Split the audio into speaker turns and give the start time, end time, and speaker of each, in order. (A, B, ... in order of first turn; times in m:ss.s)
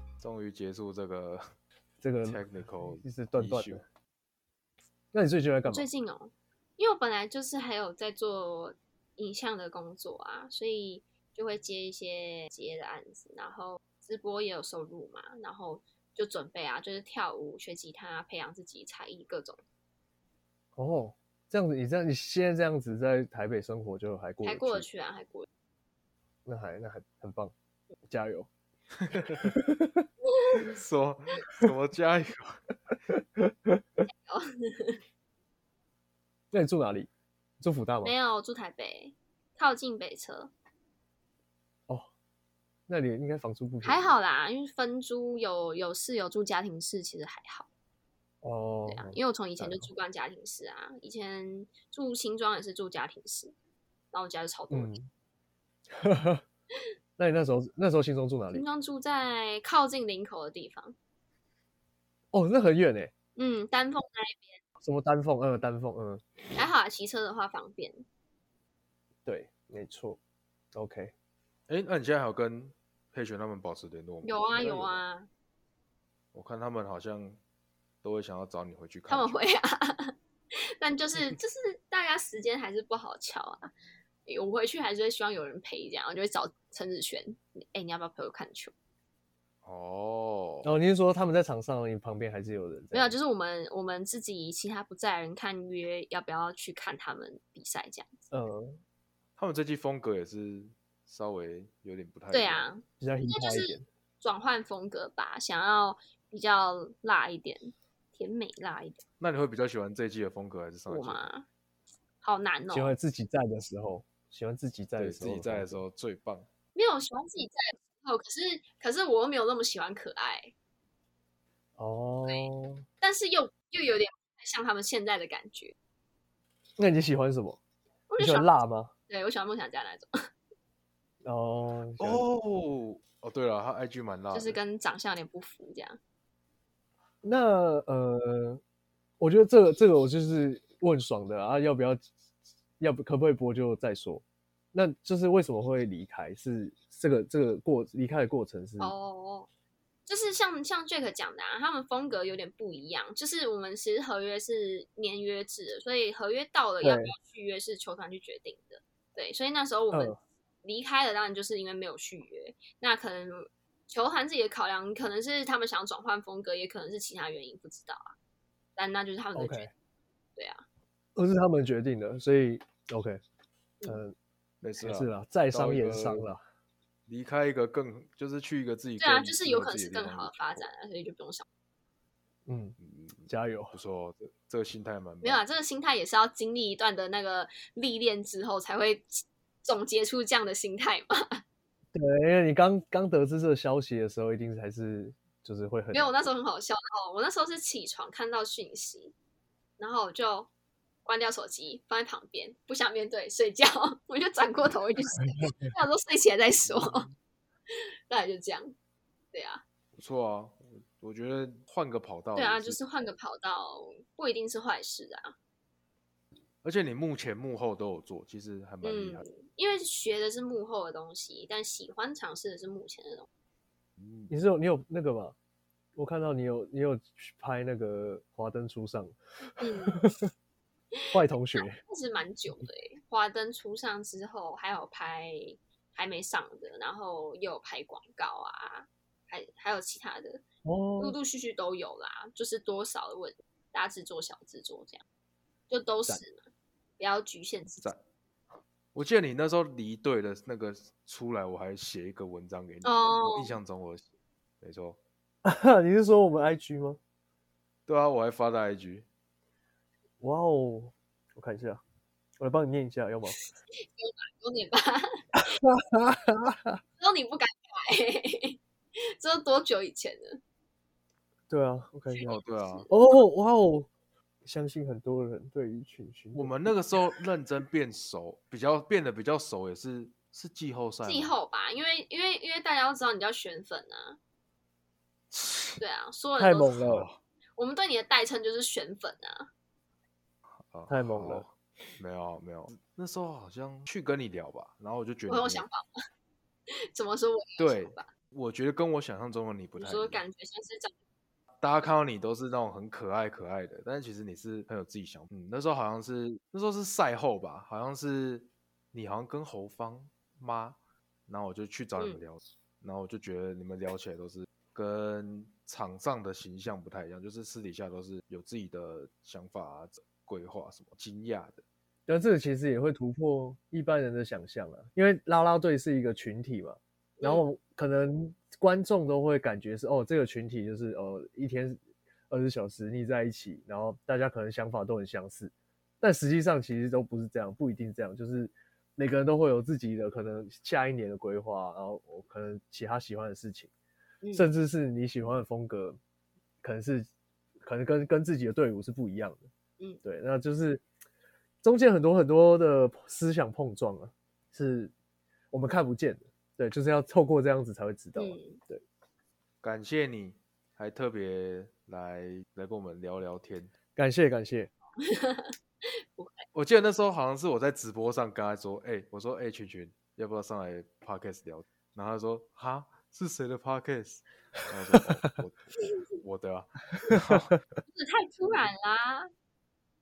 0:00.2-0:01.4 A
0:02.0-0:03.8 B
0:02.2-0:03.8 A
0:05.1-0:05.9 B
0:05.6-0:19.6 C
0:20.8-0:24.9 B
0:24.4-0:25.5 C
0:26.4-0:27.5 B
0:28.1-0:28.5 B
0:29.0-0:29.4 A
0:29.1-0:30.0 B
0:30.2-0:30.7 C
0:30.7-0:32.6 A
0:33.1-0:33.8 B
0:34.1-0:35.0 C
0:36.5-0:37.1 B
0:37.6-0:38.1 B
0:38.0-0:40.5 C
0:42.9-0:44.2 B
0:43.8-0:47.7 C
0:48.4-0:49.9 B
0:48.9-0:53.5 C
0:54.1-0:55.0 C
0:54.7-0:55.1 B
0:56.0-0:56.4 B
0:57.2-0:58.6 B
0:58.5-1:01.0 C
1:02.3-1:03.1 B
1:03.4-1:04.6 C
1:04.8-1:06.2 B
1:06.6-1:08.0 C
1:09.2-1:10.2 B
1:10.7-1:11.1 B
1:11.7-1:14.4 A
1:14.2-1:15.3 C
1:14.5-1:15.0 B
1:16.3-1:17.4 A
1:18.0-1:19.4 A
1:19.1-1:23.7 C
1:24.2-1:28.7 C
1:29.6-1:30.7 A
1:30.6-1:33.2 B
1:32.9-1:38.2 C
1:38.3-1:38.8 B
1:39.4-1:42.7 A
1:42.3-1:49.0 C
1:43.0-1:43.8 B
1:49.2-1:51.3 A
1:50.9-1:51.5 C
1:52.2-1:53.0 C
1:52.7-1:55.8 B
1:55.0-1:56.5 A
1:56.7-2:00.5 C
2:01.8-2:02.8 B
2:02.2-2:05.8 C
2:06.8-2:07.6 B
2:08.1-2:08.6 C
2:08.2-2:08.9 B
2:09.1-2:10.3 C
2:11.2-2:12.2 B
2:12.0-2:14.6 A
2:14.3-2:16.0 C
2:17.2-2:18.6 B
2:19.2-2:22.1 B
2:22.8-2:28.9 B
2:28.8-2:29.5 C
2:30.0-2:48.2 C
2:36.8-2:37.1 B
2:48.8-2:49.7 C
2:49.3-2:49.7 B
2:50.4-2:50.6 C
2:51.2-2:53.2 B
2:53.8-2:54.1 B
2:54.6-2:56.3 A
2:54.8-2:56.4 B
2:57.1-3:00.6 A
2:59.0-3:01.4 C
3:02.5-3:03.8 B
3:02.8-3:05.4 A
3:05.2-3:11.4 C
3:11.9-3:16.2 B
3:15.9-3:19.1 C
3:19.8-3:20.5 C
3:21.0-3:27.1 C
3:25.2-3:25.6 B
3:26.7-3:27.1 A
3:27.7-3:28.7 C
3:29.3-3:29.6 C
3:30.0-3:32.8 A
3:32.3-3:35.4 C
3:36.6-3:39.2 A
3:38.8-3:43.3 C
3:44.3-3:45.3 B
3:46.0-3:50.3 B
3:49.6-3:50.0 C
3:50.9-4:00.4 C
3:51.1-3:51.8 B
4:00.6-4:01.2 B
4:01.0-4:05.0 C
4:05.7-4:06.5 C
4:07.0-4:07.9 C
4:08.9-4:14.1 A
4:12.8-4:13.6 C
4:14.6-4:15.0 A
4:15.4-4:17.0 B
4:17.9-4:19.0 A
4:20.2-4:21.8 B
4:22.4-4:23.4 B
4:23.3-4:25.2 C
4:25.4-4:26.8 B
4:27.0-4:30.4 C
4:31.5-4:32.3 B
4:32.1-4:32.9 C
4:32.3-4:32.9 A
4:32.9-4:33.9 B
4:34.4-4:37.1 B
4:36.3-4:41.4 A
4:41.0-4:44.2 C
4:45.3-4:45.8 A
4:45.8-4:46.8 C
4:46.4-4:47.1 B
4:46.8-4:47.2 A
4:47.6-4:49.5 C
4:50.6-4:55.6 A
4:50.9-4:51.4 B
4:55.3-4:55.9 C
4:56.7-4:58.1 C
4:57.6-5:00.2 A
4:59.8-5:00.9 C
5:01.6-5:21.6 A
5:22.1-5:31.8 B
5:27.2-5:27.5 C
5:32.3-5:43.7 B
5:44.2-5:44.5 C
5:44.3-5:46.0 B
5:46.6-5:47.1 B
5:47.6-5:49.5 B
5:50.0-5:50.8 B
5:51.6-5:54.9 B
5:55.5-5:58.8 B
5:58.2-5:58.6 C
5:59.6-6:03.7 A
6:04.0-6:04.7 B
6:05.0-6:06.4 C
6:06.5-6:15.6 A
6:14.9-6:15.3 B
6:15.7-6:16.2 C
6:16.2-6:17.5 A
6:17.1-6:17.6 B
6:17.9-6:19.3 C